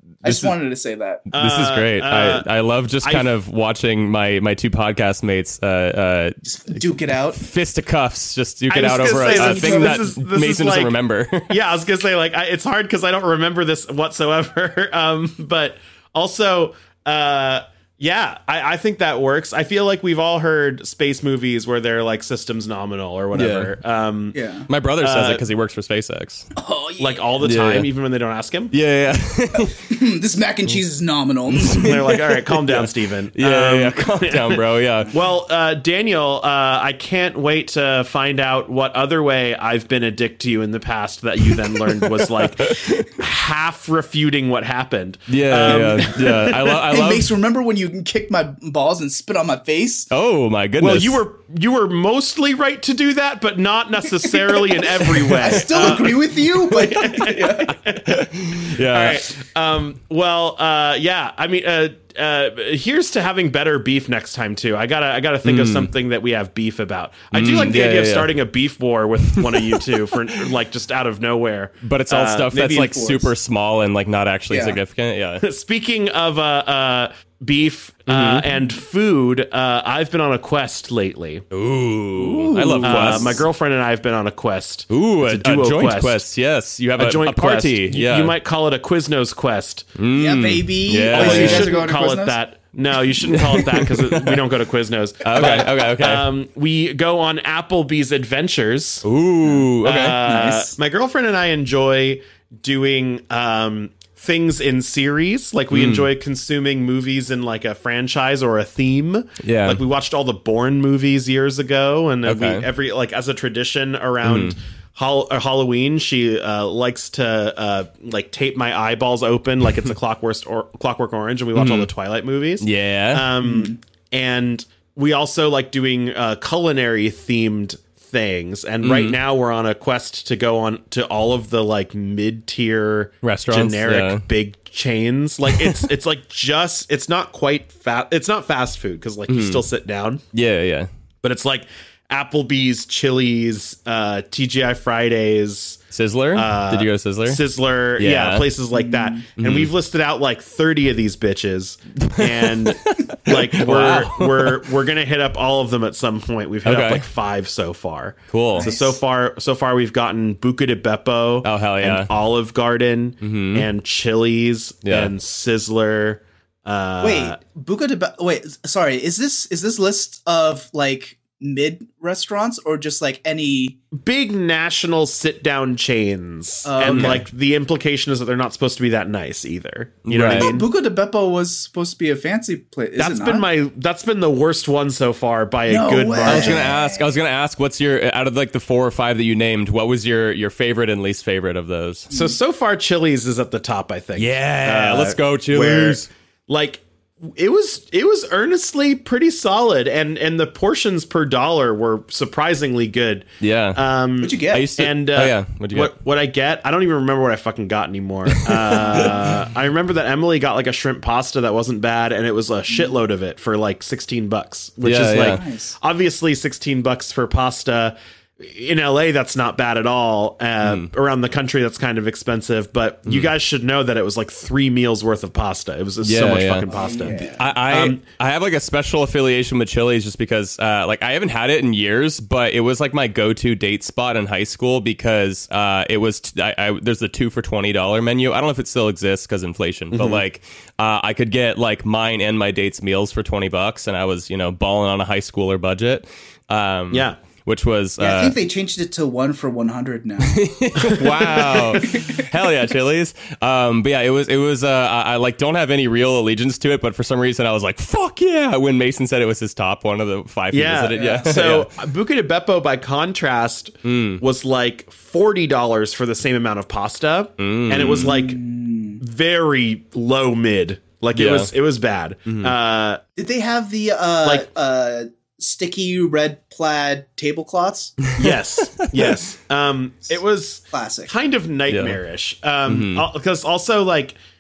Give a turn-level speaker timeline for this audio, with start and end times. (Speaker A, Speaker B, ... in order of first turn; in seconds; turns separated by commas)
Speaker A: 0.2-1.2, Speaker B: 0.2-0.5, Speaker B: 1.3-2.5, Speaker C: 1.3-6.4, Speaker A: 6.4-7.4, Speaker C: 7.3-11.5, Speaker B: 8.7-10.9, Speaker A: 9.1-10.1, Speaker B: 11.5-24.4, Speaker C: 23.3-23.8, Speaker A: 24.3-24.7, Speaker C: 24.7-26.5, Speaker B: 25.0-25.4, Speaker A: 26.5-27.3, Speaker B: 27.0-28.7, Speaker C: 27.4-27.9, Speaker C: 28.7-29.8, Speaker A: 29.5-31.9, Speaker C: 31.5-35.1, Speaker B: 31.7-46.8, Speaker C: 41.8-43.1, Speaker C: 45.3-47.3, Speaker A: 45.6-46.1, Speaker A: 46.7-50.1, Speaker C: 50.1-51.2, Speaker B: 50.8-73.2, Speaker C: 55.2-56.0, Speaker A: 55.3-57.8, Speaker C: 56.7-57.4, Speaker C: 58.0-59.3, Speaker C: 65.4-65.9, Speaker C: 67.3-68.3, Speaker C: 69.2-70.4, Speaker C: 71.8-75.4, Speaker A: 74.5-74.8, Speaker B: 75.4-81.5, Speaker C: 78.1-78.4, Speaker C: 81.5-83.4, Speaker A: 82.2-83.4, Speaker B: 82.8-86.2, Speaker C: 84.9-88.3, Speaker B: 87.0-89.9, Speaker C: 90.0-91.7, Speaker A: 90.1-92.4, Speaker B: 91.1-99.0, Speaker C: 93.4-94.4, Speaker C: 95.2-96.3, Speaker C: 99.0-100.2, Speaker B: 99.8-140.2, Speaker A: 100.2-100.8, Speaker C: 105.7-106.1, Speaker C: 109.4-109.8, Speaker C: 112.2-112.6, Speaker C: 114.2-114.5, Speaker C: 121.5-121.9, Speaker C: 122.6-123.3, Speaker A: 123.4-123.8, Speaker C: 128.8-129.2, Speaker C: 133.2-134.2, Speaker C: 135.5-135.8, Speaker C: 139.3-139.6, Speaker C: 140.3-140.9, Speaker B: 141.2-145.8, Speaker C: 145.9-147.4, Speaker B: 146.3-167.4, Speaker C: 148.0-148.5, Speaker A: 148.7-149.2, Speaker C: 149.4-149.7, Speaker C: 152.0-154.7, Speaker C: 156.6-157.0, Speaker C: 158.3-158.7, Speaker A: 158.6-159.0, Speaker C: 161.4-162.1, Speaker C: 163.2-163.7, Speaker C: 164.8-165.1, Speaker A: 167.0-173.8, Speaker B: 173.9-180.7, Speaker A: 176.6-177.2, Speaker C: 176.8-177.2, Speaker C: 180.1-180.5, Speaker A: 180.3-183.4, Speaker B: 183.0-186.7, Speaker A: 185.7-187.0, Speaker C: 186.2-192.1, Speaker A: 192.1-192.3, Speaker B: 192.1-228.0, Speaker C: 194.2-196.1, Speaker C: 203.4-203.8, Speaker A: 204.2-204.7, Speaker C: 204.4-205.9, Speaker C: 208.5-209.1, Speaker A: 208.8-209.2, Speaker A: 212.7-213.0, Speaker C: 214.8-215.4, Speaker A: 215.3-215.8, Speaker C: 220.6-220.9, Speaker C: 226.0-248.3, Speaker A: 226.7-227.5, Speaker B: 239.9-240.2, Speaker B: 246.9-247.2, Speaker A: 248.0-250.5, Speaker C: 250.2-261.7, Speaker B: 250.8-251.9, Speaker A: 251.7-252.3, Speaker B: 260.5-268.4, Speaker A: 260.9-261.4, Speaker C: 263.8-264.2, Speaker C: 267.4-268.1, Speaker A: 268.0-269.0, Speaker B: 269.0-273.0, Speaker C: 271.1-271.5, Speaker C: 272.3-272.5, Speaker A: 273.2-278.1, Speaker B: 278.2-284.2, Speaker A: 280.7-281.1, Speaker C: 281.7-282.0, Speaker C: 282.7-283.0